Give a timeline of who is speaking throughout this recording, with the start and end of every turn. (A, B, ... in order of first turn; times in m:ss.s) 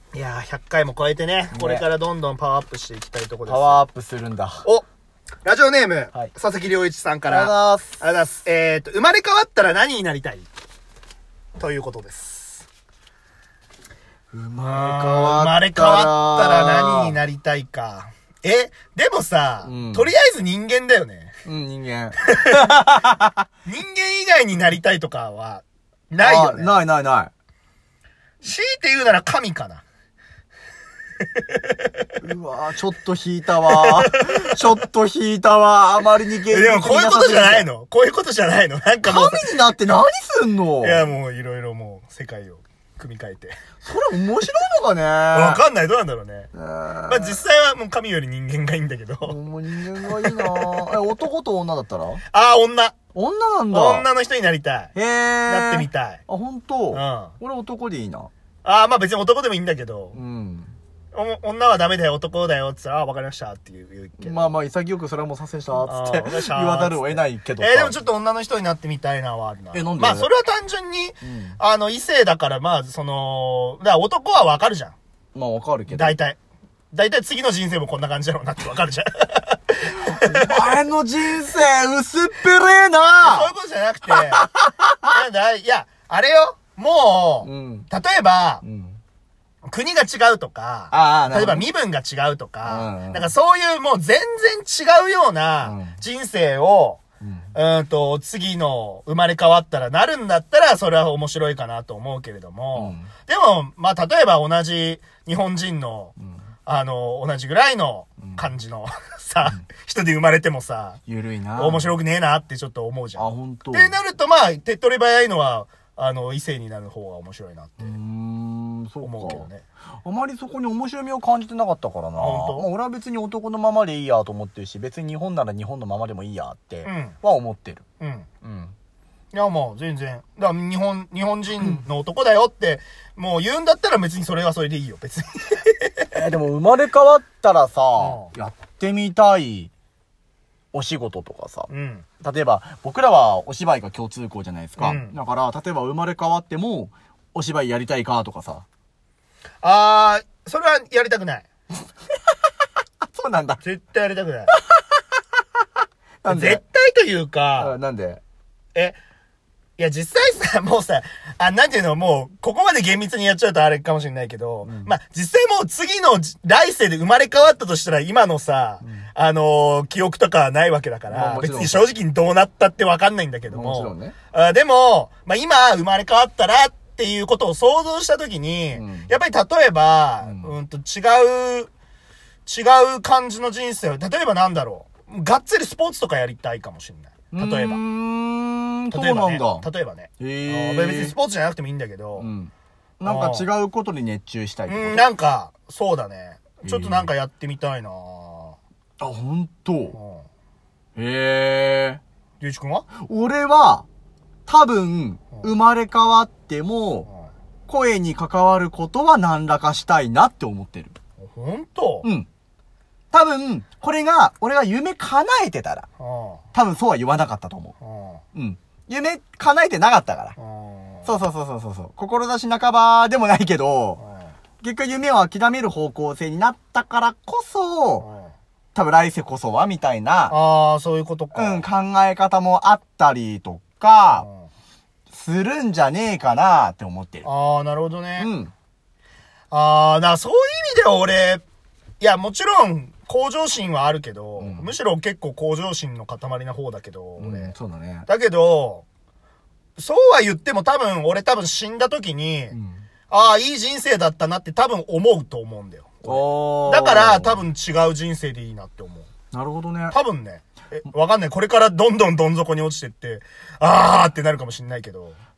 0:00.1-0:03.8 A
0:01.5-0:01.8 B
0:03.4-0:04.6 B
0:05.4-0:10.5 A
0:07.3-0:08.0 B
0:11.6-0:12.7 A
0:14.3-0:17.2 B
0:14.6-0:21.3 A
0:19.6-0:20.1 B
0:21.4-0:23.4 B
0:23.6-0:26.8 A
0:26.2-0:27.3 B
0:28.4-0:29.8 A
0:32.2-0:37.7 B
0:33.7-0:34.6 A
0:36.5-0:39.7 A
0:39.0-0:41.0 B
0:40.8-0:43.5 A
0:43.8-0:45.6 B
0:45.3-0:46.5 A
0:46.5-0:47.4 B
0:47.1-0:49.4 A
0:49.2-0:52.2 B
0:49.9-0:51.0 A
0:52.3-0:53.0 A
0:53.1-0:54.0 B
0:53.7-0:54.9 A
0:54.9-0:58.3 B
0:55.4-0:56.2 A
0:56.9-0:57.3 A
0:58.6-1:00.2 A
1:00.1-1:00.7 B
1:01.1-1:04.5 A
1:04.2-1:08.0 B
1:05.8-1:14.9 A
1:09.7-1:10.3 B
1:11.2-1:11.6 B
1:15.3-1:16.2 B
1:15.9-1:16.4 A
1:16.9-1:20.6 A
1:19.8-1:23.5 B
1:23.2-1:24.5 A
1:24.1-1:25.1 B
1:25.1-1:28.6 A
1:27.4-1:27.9 B
1:28.6-1:29.0 B
1:29.7-1:37.0 A
1:30.9-1:31.6 B
1:32.6-1:33.3 B
1:35.6-1:36.0 B
1:37.2-1:37.5 B
1:37.5-1:46.1 A
1:42.8-1:43.1 B
1:46.6-1:51.0 A
1:51.1-1:51.9 B
1:51.6-1:57.9 A
1:53.2-1:53.9 B
1:57.8-1:59.5 B
1:59.0-1:59.6 A
2:00.0-2:07.8 B
2:02.1-2:02.7 A
2:06.8-2:07.1 A
2:08.0-2:08.3 A
2:08.4-2:08.7 B
2:09.3-2:16.1 A
2:16.1-2:19.7 B
2:18.0-2:18.3 A
2:20.7-2:28.6 B
2:21.7-2:22.1 A
2:24.8-2:25.2 A
2:29.6-2:31.5 A
2:33.1-2:33.6 B
2:33.6-2:34.5 A
2:36.2-2:36.6 B
2:36.3-2:37.8 A
2:37.6-2:38.2 B
2:39.8-3:01.7 A
2:44.6-2:44.9 B
2:51.1-2:51.9 B
2:53.5-2:54.1 B
2:58.7-2:59.1 B
3:00.2-3:00.5 B
3:02.4-3:07.8 A
3:07.3-3:09.6 B
3:08.9-3:12.3 A
3:10.2-3:11.1 B
3:12.2-3:15.0 B
3:13.0-3:13.5 A
3:14.7-3:18.6 A
3:16.6-3:17.1 B
3:19.0-3:20.0 B
3:19.9-3:20.2 A
3:21.0-3:22.0 B
3:22.4-3:22.9 A
3:23.0-3:23.8 B
3:24.5-3:27.1 B
3:27.7-3:30.9 B
3:31.2-3:32.1 A
3:32.0-3:32.3 B
3:33.1-3:35.9 B
3:36.0-3:36.4 A
3:36.5-3:37.7 B
3:37.8-3:38.2 A
3:38.3-3:40.3 B
3:40.4-3:41.1 A
3:41.0-3:44.0 B
3:44.0-3:44.3 A
3:44.6-3:48.1 B
3:48.0-3:48.3 A
3:48.7-3:50.4 B
3:50.3-3:51.6 A
3:51.3-3:54.3 B
3:54.2-3:54.5 A
3:55.1-3:57.2 B
3:57.2-3:58.3 A
3:58.2-3:58.5 B
3:59.5-4:01.4 A
4:02.0-4:07.5 A
4:04.4-4:04.7 B
4:07.2-4:08.0 B
4:08.0-4:08.8 A
4:09.8-4:12.5 A
4:12.5-4:12.8 B
4:13.1-4:19.1 A
4:16.0-4:17.4 B
4:19.3-4:20.0 B
4:19.9-4:25.2 A